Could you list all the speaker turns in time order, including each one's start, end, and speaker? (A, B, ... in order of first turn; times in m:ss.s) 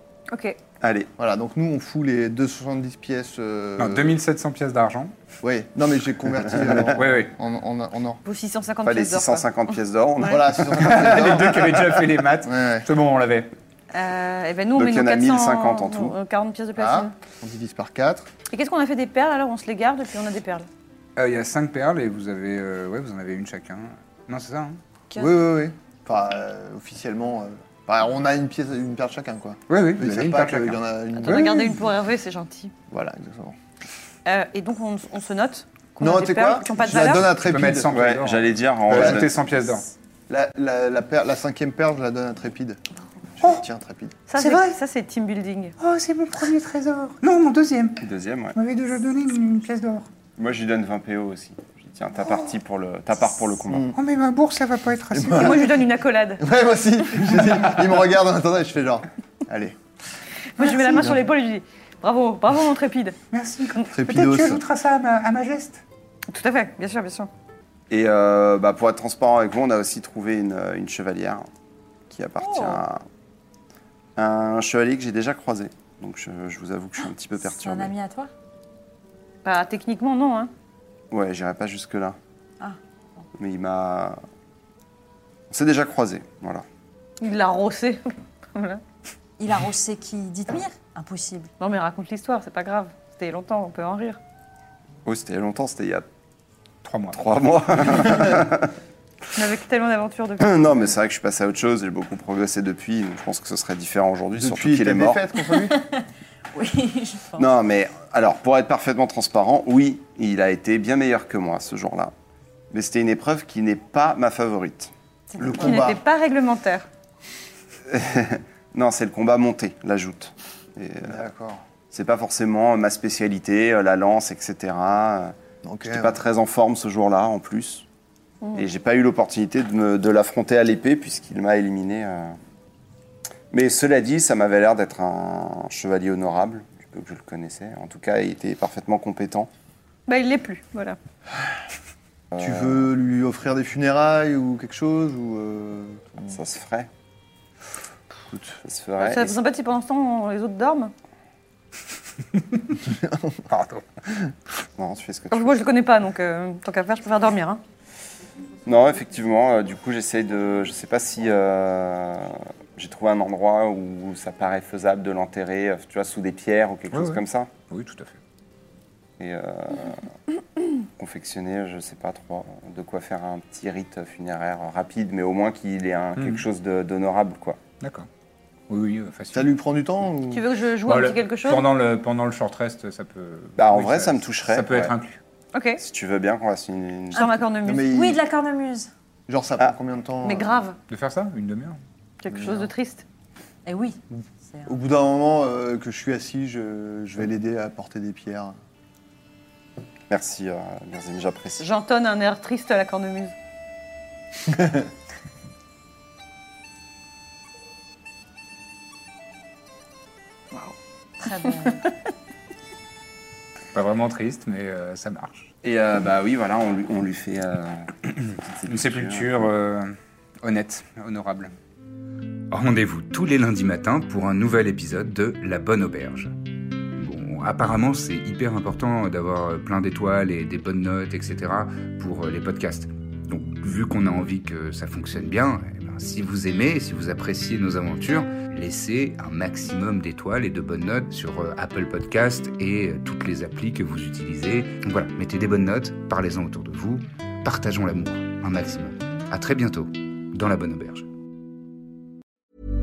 0:00.3-0:00.6 A
0:00.8-0:01.1 B
0:01.2-0:04.1 C
0:03.8-0:05.1 D
0:05.4-0:08.2 C
0:07.0-0:07.3 D
0:08.2-0:09.5 A
0:08.8-0:11.0 B
0:10.2-0:11.9 C
0:10.8-0:13.5 D
0:12.4-0:12.9 C
0:13.9-0:17.1 A
0:14.8-0:16.2 B
0:16.8-0:18.3 C
0:18.5-0:20.7 A
0:21.2-0:24.8 D
0:25.1-0:25.5 A
0:25.2-0:31.7 C
0:29.7-0:31.7 D
0:31.2-0:32.7 A
0:32.9-0:33.6 C
0:34.3-0:37.3 A
0:36.0-0:38.0 C
0:37.0-0:39.9 D
0:37.9-0:39.4 B
0:38.9-0:39.3 C
0:40.3-0:42.8 C
0:43.4-0:44.2 C
0:44.3-0:45.8 A
0:44.4-0:44.8 D
0:45.8-0:50.1 D
0:48.0-0:48.6 B
0:50.4-0:53.9 B
0:53.7-0:54.0 C
0:53.9-0:55.6 D
0:55.1-0:55.8 C
0:55.3-0:56.4 A
0:56.4-0:59.8 C
1:00.6-1:03.2 A
1:00.6-1:01.1 C
1:03.3-1:05.8 D
1:03.9-1:04.6 C
1:06.3-1:07.3 A
1:07.9-1:11.5 B
1:12.1-1:13.0 B
1:14.2-1:17.9 B
1:17.4-1:18.3 E
1:19.4-1:20.5 A
1:21.1-1:22.2 B
1:23.4-1:24.2 B
1:25.5-1:26.6 B
1:27.2-1:28.8 A
1:29.4-1:31.5 E
1:31.6-1:34.2 A
1:35.0-1:36.0 B
1:36.8-1:37.2 D
1:37.1-1:38.7 B
1:39.3-1:40.9 A
1:40.4-1:45.2 B
1:44.4-1:45.8 C
1:45.7-1:47.5 E
1:47.4-1:52.1 B
1:52.7-1:54.9 B
1:55.3-1:55.8 E
1:55.4-1:56.0 C
1:55.6-1:56.9 A
1:57.9-2:01.2 B
2:01.1-2:01.6 C
2:01.9-2:05.3 B
2:05.6-2:06.2 C
2:05.8-2:07.9 B
2:08.5-2:12.4 B
2:13.5-2:19.5 B
2:20.1-2:21.0 A
2:22.3-2:22.9 B
2:22.4-2:26.4 C
2:26.3-2:26.9 B
2:28.2-2:28.6 C
2:28.6-2:29.4 B
2:29.0-2:30.9 A
2:32.8-2:33.4 C
2:33.5-2:33.8 D
2:34.8-2:35.6 B
2:35.3-2:37.6 A
2:38.6-2:47.5 B
2:46.9-2:48.2 D
2:49.2-2:50.1 B
2:51.0-2:57.6 B
2:56.2-2:56.4 D
2:57.8-2:58.1 D
2:58.7-2:59.5 D
2:59.3-3:00.4 C
3:00.3-3:01.7 A
3:00.8-3:05.2 D
3:03.6-3:04.9 B
3:05.5-3:05.8 A
3:05.8-3:07.3 B
3:07.1-3:07.9 A
3:07.1-3:08.9 E
3:07.6-3:08.2 C
3:09.3-3:10.6 C
3:10.2-3:10.8 A
3:10.9-3:11.8 D
3:12.2-3:13.0 A
3:12.3-3:12.7 C
3:13.7-3:14.7 E
3:14.7-3:18.6 C
3:20.1-3:21.6 B
3:21.6-3:23.3 A
3:24.5-3:24.9 C
3:31.2-3:31.8 E
3:33.7-3:35.5 D
3:35.6-3:37.9 B
3:38.2-3:41.5 D
3:38.5-3:39.3 B
3:42.5-3:46.3 D
3:47.0-4:11.1 D